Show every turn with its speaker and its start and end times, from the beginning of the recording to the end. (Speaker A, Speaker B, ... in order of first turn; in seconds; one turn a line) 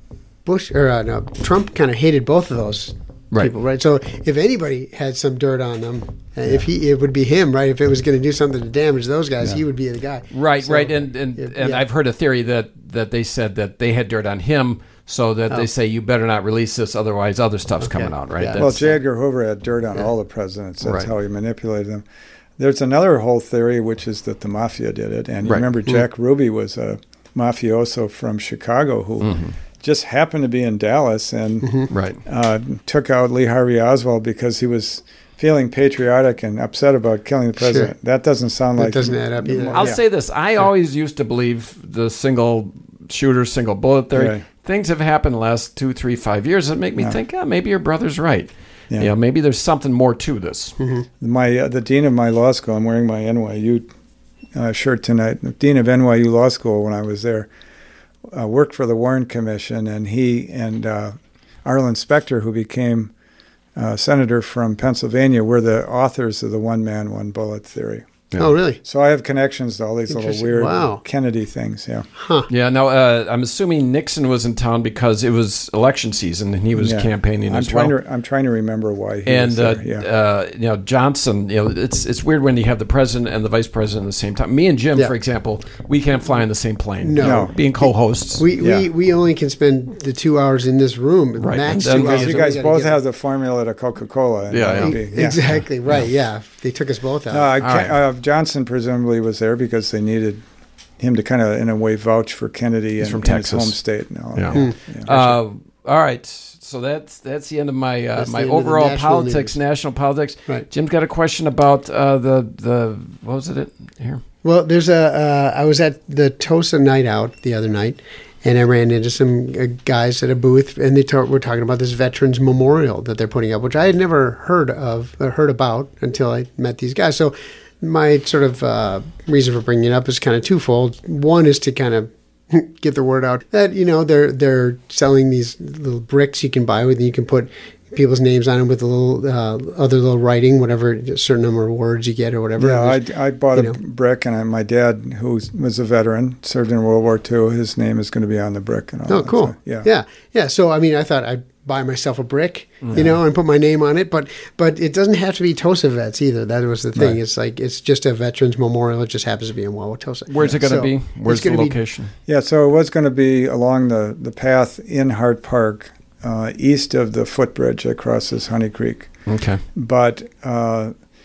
Speaker A: 0.4-11.8
Speaker B: 10.3-18.9
Speaker A: 17.8-18.9
Speaker C: 18.6-22.0
Speaker B: 20.8-21.1
Speaker C: 22.6-40.0
Speaker B: 25.4-25.7
Speaker B: 29.2-29.5
Speaker B: 31.9-32.2
Speaker A: 37.6-37.9
Speaker A: 38.8-39.9
Speaker B: 39.7-50.8
Speaker C: 44.1-44.4
Speaker A: 50.8-51.1
Speaker C: 51.2-53.9
Speaker C: 54.5-57.5
Speaker C: 58.3-63.1
Speaker C: 63.8-68.2
Speaker A: 68.4-68.8
Speaker C: 68.8-72.1
Speaker A: 70.1-71.0
Speaker A: 72.1-72.5
Speaker B: 72.5-77.9
Speaker C: 76.8-80.1
Speaker B: 79.2-88.5
Speaker A: 87.0-93.0
Speaker C: 87.2-87.5
Speaker C: 88.6-88.9
Speaker B: 91.4-92.5
Speaker C: 91.9-95.4
Speaker B: 94.5-94.9
Speaker A: 94.8-97.5
Speaker C: 97.3-100.4
Speaker B: 97.6-98.0
Speaker C: 101.0-105.4
Speaker B: 103.0-103.8
Speaker B: 104.3-114.2
Speaker A: 108.2-109.5
Speaker A: 114.4-143.8
Speaker C: 142.6-149.9
Speaker A: 149.1-161.8
Speaker B: 152.8-153.1
Speaker B: 160.3-162.1
Speaker C: 162.2-169.1
Speaker B: 169.3-169.6
Speaker C: 169.7-170.9